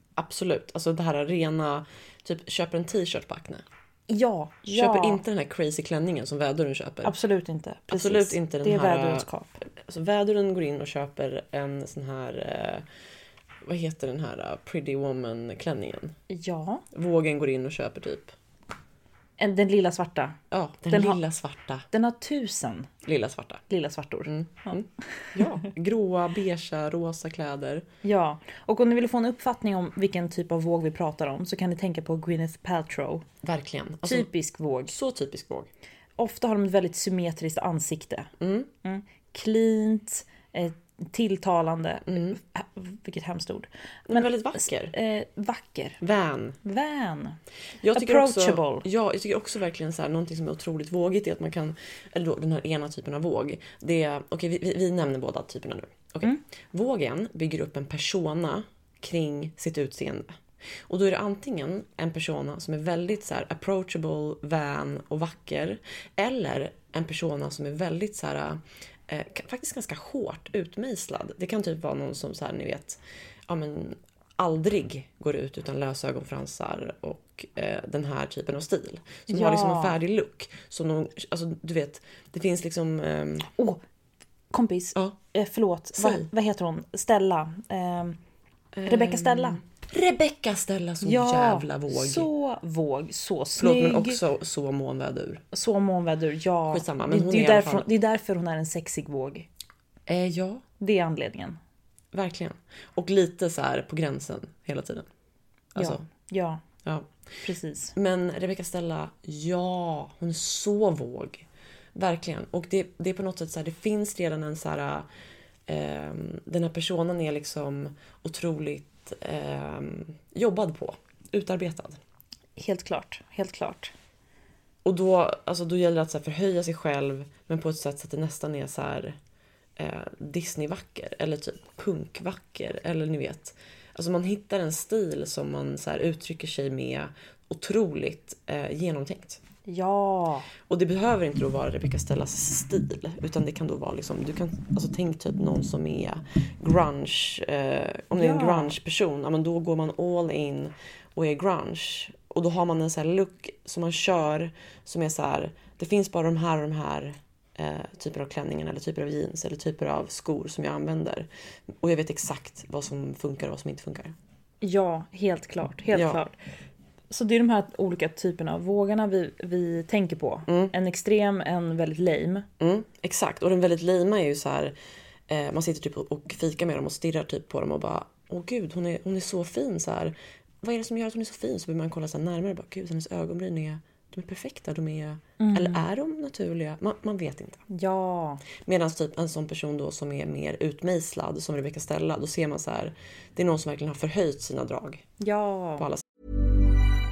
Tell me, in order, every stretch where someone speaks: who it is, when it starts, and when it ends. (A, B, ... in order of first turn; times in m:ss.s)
0:00.2-0:03.6 A
0:04.1-0:05.2 B
0:04.7-0:07.2 A
0:07.0-0:09.6 B
0:07.9-0:12.9 A
0:13.6-0:16.2 A
0:16.3-0:16.8 B
0:16.9-0:18.3 A
0:19.4-0:20.4 B
0:20.5-0:21.9 A
0:20.9-0:21.2 B
0:21.9-0:22.9 B
0:23.0-0:23.6 A
0:23.7-0:24.8 B
0:24.3-0:27.8 A
0:28.0-0:33.2 B
0:33.4-0:34.3 A
0:34.0-0:35.0 B
0:34.9-0:35.7 A
0:36.2-0:38.3 B
0:38.4-0:38.7 A
0:38.8-0:46.0 B
0:42.1-0:42.4 A
0:44.1-0:44.9 A
0:46.0-0:46.6 A
0:46.6-0:47.4 B
0:47.8-1:00.4 A
0:48.0-0:48.8 B
1:00.9-1:23.5 A
1:19.3-1:20.0 B
1:23.6-1:23.8 B
1:24.5-1:28.2 B
1:26.0-1:26.3 A
1:28.8-1:32.3 A
1:28.8-1:29.6 B
1:31.0-1:34.2 B
1:33.6-1:35.4 A
1:35.5-1:39.5 B
1:36.7-1:37.9 A
1:40.1-1:40.6 A
1:40.8-1:41.6 B
1:42.1-1:45.1 A
1:45.8-1:46.0 A
1:45.8-1:46.6 B
1:47.4-1:47.9 B
1:48.0-1:55.1 A
1:55.7-2:02.0 A
2:02.6-2:03.9 B
2:04.8-2:09.2 A
2:09.8-2:19.4 A
2:19.7-2:20.5 B
2:20.7-2:41.3 A
2:28.1-2:28.8 B
2:41.8-2:44.2 A
2:44.6-2:46.4 B
2:45.9-2:46.2 A
2:47.1-2:52.5 B
2:50.5-2:50.7 A
2:52.6-2:54.8 A
2:55.3-3:07.6 A
3:05.4-3:05.8 B
3:07.7-3:08.4 B
3:08.6-3:15.0 A
3:15.2-3:15.8 B